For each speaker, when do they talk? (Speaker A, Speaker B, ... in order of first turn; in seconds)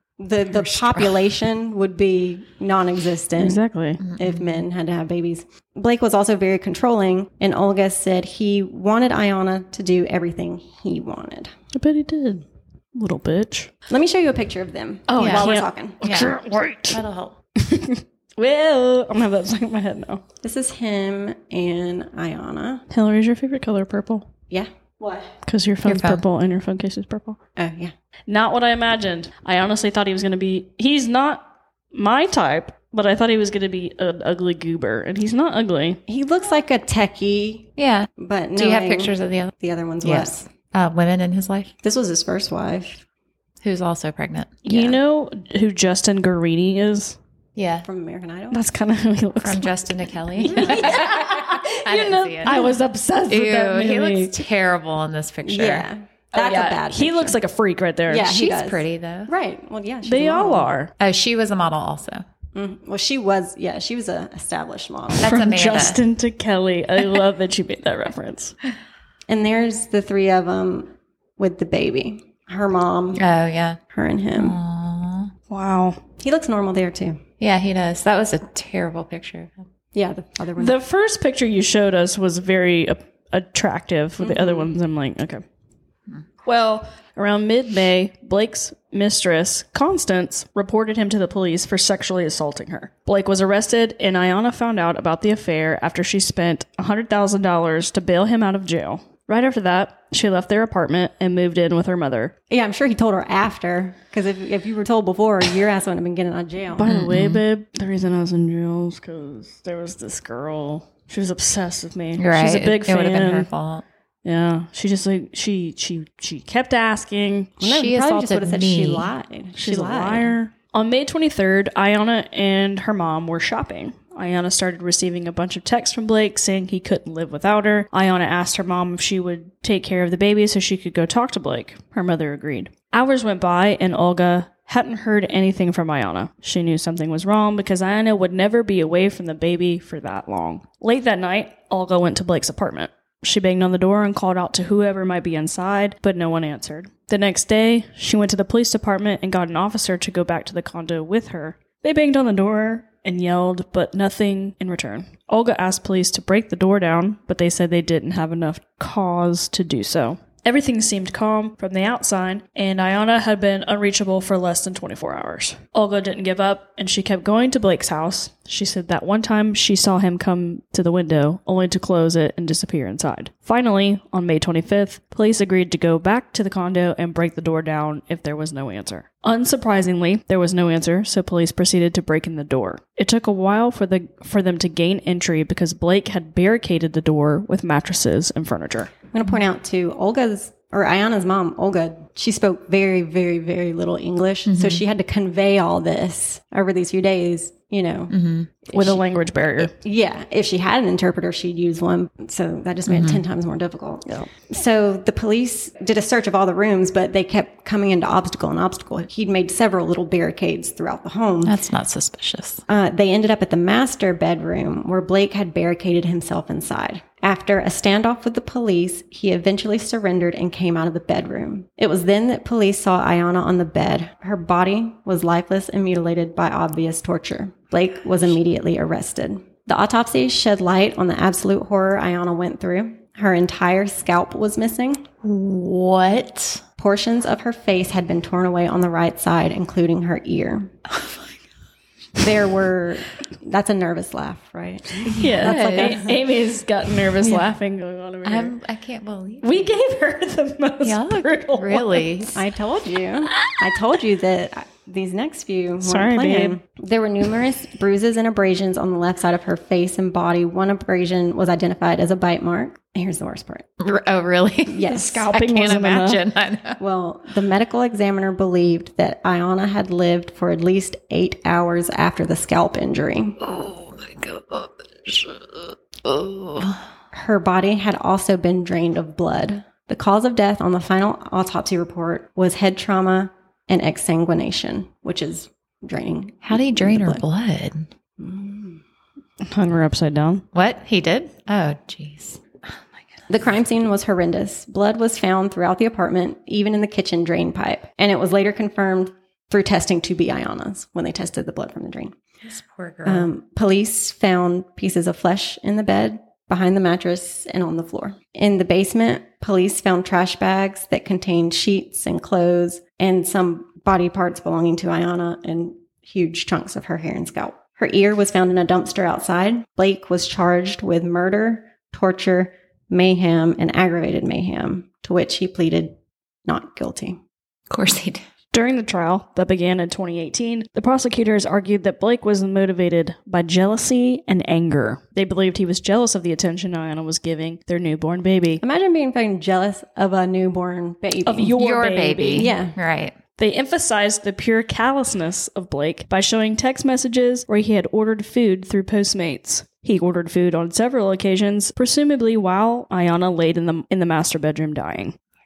Speaker A: 0.2-3.6, 4.2-11.5, 13.9-16.3, 20.4-22.8, 24.5-25.3, 27.6-27.9, 36.1-40.5, 41.8-43.0, 44.7-45.0, 47.8-48.6, 55.4-57.4, 58.1-60.7, 62.5-65.5, 69.3-73.2, 73.9-74.6, 76.2-77.2, 79.9-80.8, 84.2-84.7, 102.5-106.9, 117.6-120.3, 189.1-198.1, 198.7-199.0, 199.8-211.6, 212.7-235.0, 236.8-240.7, 242.2-246.1, 252.3-263.6, 264.7-265.3, 266.8-273.4, 277.1-287.2, 288.2-288.8, 293.3-302.1, 303.1-325.9, 326.4-327.2, 338.6-341.6, 342.3-342.8
Speaker B: 0.5-1.3, 4.0-4.6, 15.2-17.4, 25.8-26.2, 37.8-41.7, 43.6-44.6, 47.5-47.9, 49.4-55.9, 58.2-59.3, 61.0-62.2, 65.2-66.0, 73.2-73.8, 74.3-75.3, 77.4-79.5, 106.8-107.4, 112.2-113.8, 117.6-119.1, 194.4-194.8, 198.1-198.5, 202.8-203.2, 211.4-212.6, 235.2-236.6, 241.0-241.3, 245.0-246.0, 248.2-249.8, 250.8-252.4, 263.8-266.8, 273.4-276.8, 286.4-287.9, 290.5-292.8, 302.4-303.3, 327.7-328.2, 341.6-343.1
Speaker C: 3.4-4.0, 11.7-13.7, 15.1-17.0, 17.6-20.2, 22.9-24.3, 25.4-27.4, 28.3-36.0, 44.6-47.2, 48.5-54.4, 56.3-58.3, 60.0-60.9, 65.2-68.6, 75.5-76.0, 80.6-85.4, 86.4-102.3, 106.7-113.5, 114.2-117.5, 119.6-188.9, 198.7-199.7, 245.2-248.5, 249.4-252.3, 255.8-256.6, 264.9-266.2, 289.4-290.4, 328.5-338.6, 341.2-342.6, 343.4-355.2